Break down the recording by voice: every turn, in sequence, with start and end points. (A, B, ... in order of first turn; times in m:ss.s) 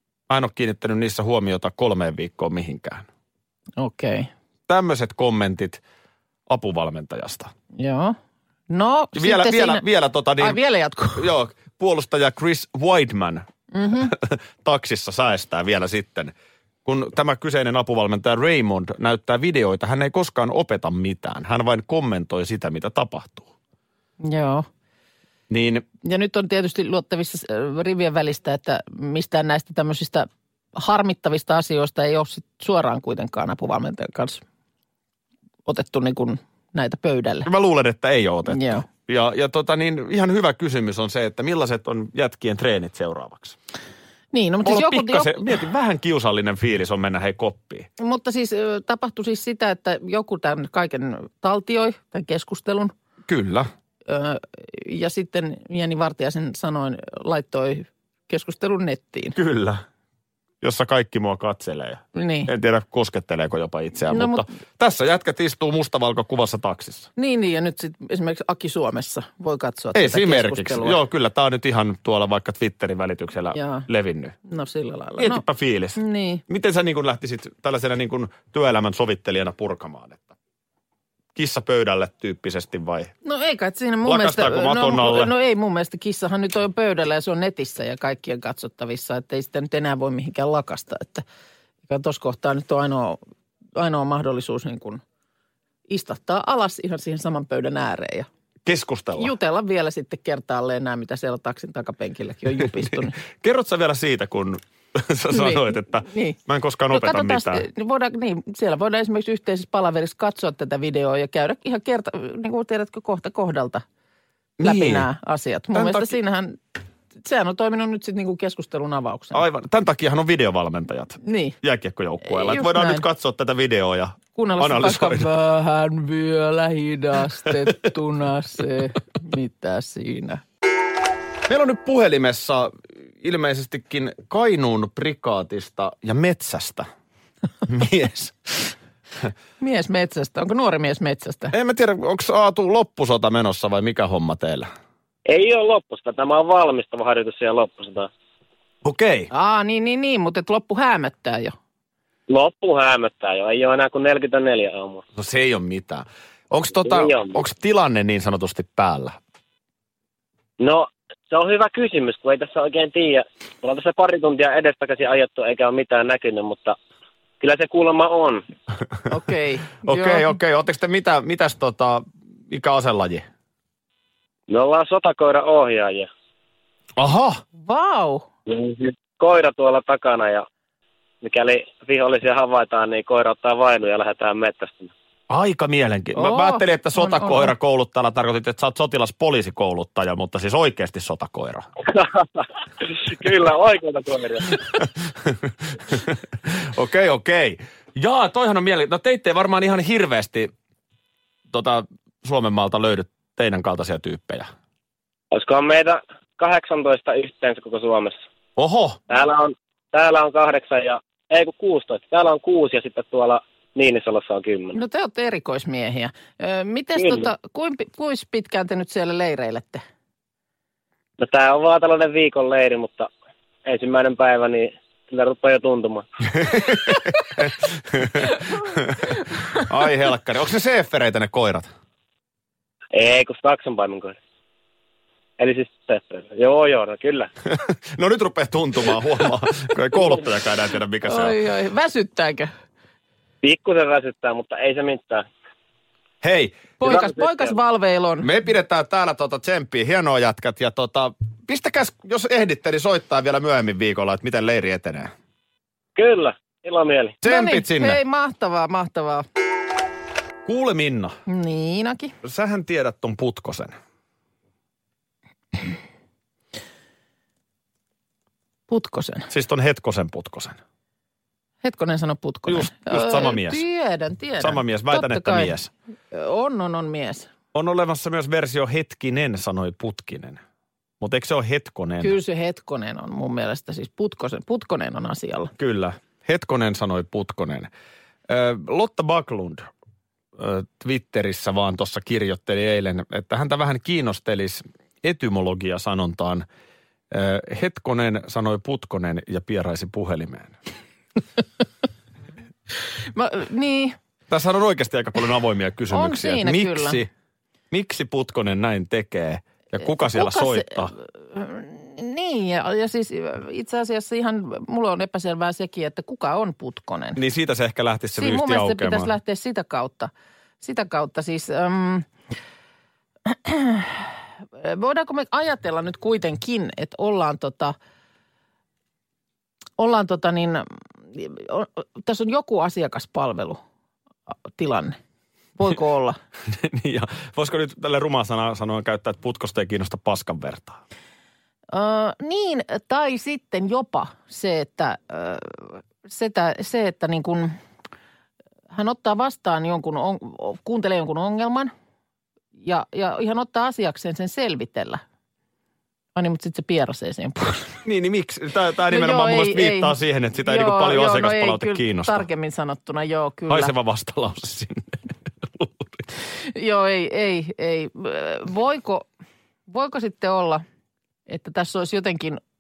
0:00.3-0:03.1 A
0:03.8-0:04.3 B
0:04.7-0:05.8 A
0:06.5-0:07.5 A
0:07.8-0:08.2 B
0:08.7-0:09.8 B
0:09.2-0:10.6 A
0:10.4-0:11.3 B
0:11.2-0:13.5 A
0:13.7-0:14.1 B
0:14.0-0:16.3 A
0:16.8-0:23.5 A
0:24.2-0:24.7 B
0:25.5-0:25.8 A
0:26.0-0:34.4 B
0:35.7-0:37.5 B
0:37.4-0:43.6 A
0:38.5-0:38.8 B
0:44.3-0:45.4 B
0:44.6-0:47.9 A
0:48.0-0:52.9 B
0:53.3-0:53.7 A
0:54.1-0:59.4 B
0:59.4-0:59.8 A
1:00.6-1:07.1 A
1:02.2-1:02.5 B
1:04.1-1:04.5 B
1:07.2-1:11.0 B
1:09.9-1:14.4 A
1:13.5-1:13.9 B
1:14.5-1:15.4 B
1:15.2-1:20.4 A
1:16.0-1:16.4 B
1:21.4-1:23.1 A
1:23.2-1:31.2 B
1:24.0-1:25.3 A
1:31.9-1:33.2 B
1:33.8-1:35.0 B
1:35.9-1:38.3 B
1:38.7-1:39.3 A
1:39.2-1:43.2 B
1:42.6-1:47.7 A
1:45.3-1:46.4 B
1:46.9-1:53.8 B
1:54.6-1:55.1 A
1:54.6-1:56.6 B
1:55.7-1:56.1 A
1:57.2-1:59.4 B
1:59.3-2:05.3 A
2:01.2-2:01.6 B
2:02.2-2:03.0 B
2:04.4-2:10.4 B
2:11.5-2:16.9 A
2:17.7-2:18.7 A
2:19.6-2:21.5 B
2:21.5-2:24.7 A
2:25.3-2:28.1 C
2:28.8-2:29.3 A
2:29.3-2:31.6 B
2:32.3-2:35.0 C
2:35.2-2:39.2 A
2:36.9-2:37.4 C
2:40.6-2:46.8 C
2:47.4-2:48.4 C
2:49.1-2:50.4 B
2:49.8-2:53.3 A
2:54.5-2:56.1 C
2:57.0-2:57.4 A
2:57.6-2:58.2 B
2:58.5-3:00.5 C
3:01.2-3:04.9 C
3:05.3-3:11.6 A
3:06.2-3:07.5 B
3:12.0-3:14.6 C
3:15.2-3:20.5 A
3:21.5-3:24.5 A
3:25.3-3:28.2 C
3:28.6-3:29.0 A
3:29.1-3:34.8 C
3:34.7-3:39.8 B
3:37.0-3:37.3 C
3:41.2-3:43.1 C
3:43.7-3:46.0 C
3:46.3-3:51.7 A
3:52.9-3:54.2 C
3:55.4-3:57.3 C
3:57.5-4:01.4 A
4:01.0-4:02.5 B
4:03.4-4:05.2 C
4:06.2-4:06.6 A
4:06.8-4:08.3 B
4:06.8-4:07.5 C
4:08.2-4:15.1 A
4:16.0-4:17.2 C
4:17.2-4:18.0 A
4:17.2-4:19.2 B
4:20.5-4:21.2 A
4:21.3-4:22.1 B
4:22.2-4:23.8 A
4:28.7-4:29.3 B
4:29.3-4:30.6 A
4:31.6-4:35.5 B
4:32.5-4:33.6 A
4:34.4-4:35.7 A
4:36.1-4:37.3 B
4:37.5-4:40.4 A
4:41.0-4:42.2 A
4:42.0-4:45.5 B
4:45.6-4:47.7 A
4:48.3-4:49.7 A
4:50.4-4:56.5 A
4:57.1-5:00.6 A
5:03.1-5:04.0 B
5:04.3-5:07.1 A
5:05.9-5:07.0 B
5:07.7-5:10.9 A
5:10.0-5:17.2 B
5:17.2-5:19.1 A
5:18.2-5:22.1 B
5:23.3-5:27.8 B
5:29.8-5:33.6 B
5:34.6-5:35.0 B
5:35.6-5:36.2 B
5:36.5-5:40.8 A
5:41.7-5:47.6 B
5:48.7-5:51.7 B
5:52.6-5:55.0 B
5:56.2-5:57.8 B
5:57.8-6:02.2 A
5:58.9-6:03.7 B
6:03.5-6:06.0 A
6:06.5-6:09.1 B
6:09.7-6:10.6 B
6:11.3-6:12.4 B